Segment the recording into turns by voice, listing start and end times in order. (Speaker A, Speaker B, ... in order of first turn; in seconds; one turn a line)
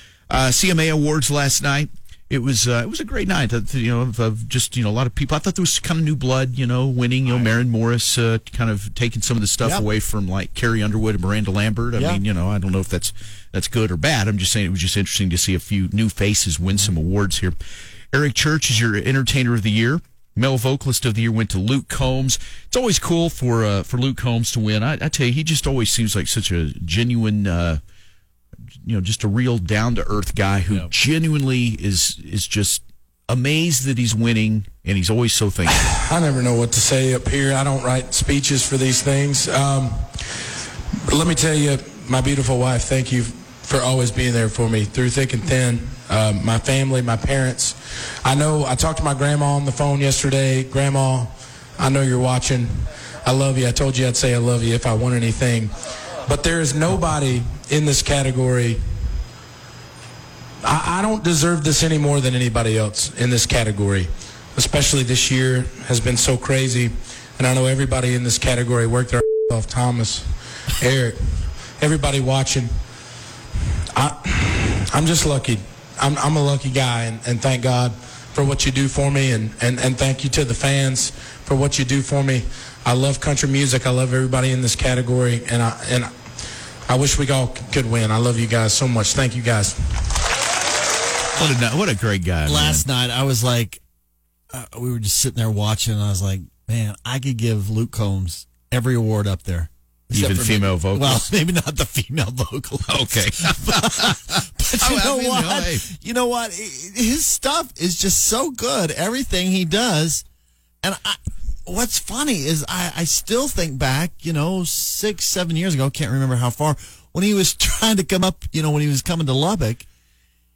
Speaker A: 0.3-17.6
Speaker B: 11.9-12.2
Speaker A: 18.1-27.8
Speaker A: 28.8-35.9
Speaker C: 35.7-40.5
Speaker C: 41.1-55.7
Speaker C: 56.2-58.8
Speaker C: 60.6-72.7
Speaker C: 73.9-86.1
Speaker C: 86.9-90.2
Speaker A: 91.4-92.9
Speaker B: 92.5-93.8
Speaker B: 94.5-110.2
Speaker A: 100.1-101.3
Speaker A: 102.9-105.9
Speaker B: 110.8-119.9